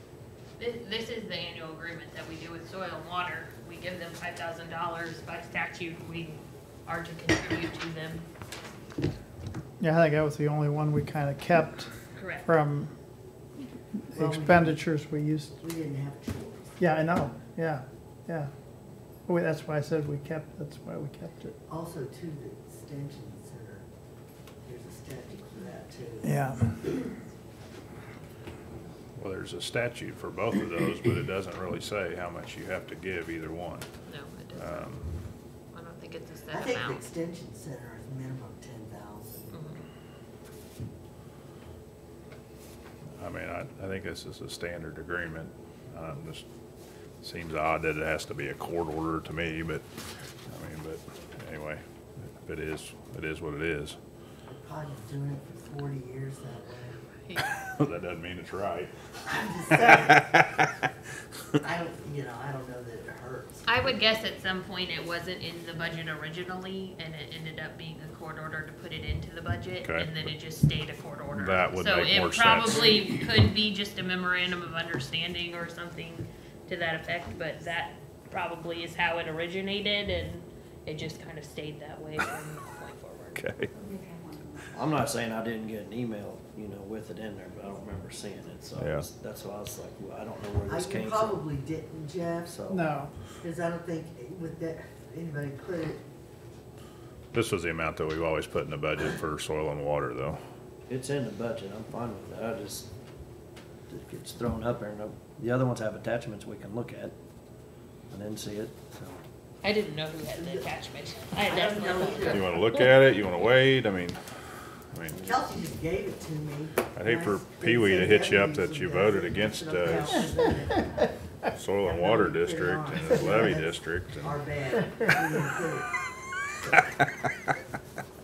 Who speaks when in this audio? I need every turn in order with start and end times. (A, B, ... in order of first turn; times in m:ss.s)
0:00.6-0:08.2 A
0:09.8-0:11.9 B
0:12.2-0:12.5 A
0:12.4-0:12.9 B
0:14.0-0:15.5 B
0:14.1-0:14.8 C
0:15.6-0:16.8 C
0:16.8-0:18.5 B
0:19.3-0:21.6 B
0:21.7-0:23.9 C
0:24.6-0:27.1 C
0:26.2-0:26.8 B
0:29.2-0:33.9 D
0:34.1-0:35.0 A
0:34.6-0:35.1 D
0:35.7-0:37.1 A
0:36.5-0:39.6 C
0:39.5-0:39.8 A
0:43.2-0:46.4 D
0:47.2-0:49.8 D
0:50.5-0:54.0 D
0:54.5-0:57.0 C
0:57.2-0:57.5 A
0:57.7-0:58.9 D
0:59.2-1:00.3 C
0:59.8-1:00.7 D
1:01.6-1:04.0 C
1:03.7-1:23.4 A
1:09.8-1:10.3 D
1:11.4-1:12.8 D
1:23.4-1:23.7 D
1:23.8-1:24.7 B
1:24.7-1:31.4 E
1:28.8-1:29.0 D
1:30.7-1:32.6 C
1:32.5-1:32.8 E
1:32.7-1:33.1 B
1:33.4-1:36.0 C
1:37.3-1:40.4 D
1:40.9-1:42.9 E
1:43.9-1:47.2 E
1:48.1-1:49.2 E
1:49.6-1:52.6 A
1:50.4-1:50.7 C
1:51.4-1:52.5 C
1:52.3-1:54.2 D
1:54.9-1:55.2 D
1:55.2-2:01.1 C
1:57.0-2:00.2 D
2:01.6-2:04.3 D
2:01.8-2:05.9 C
2:06.5-2:07.0 C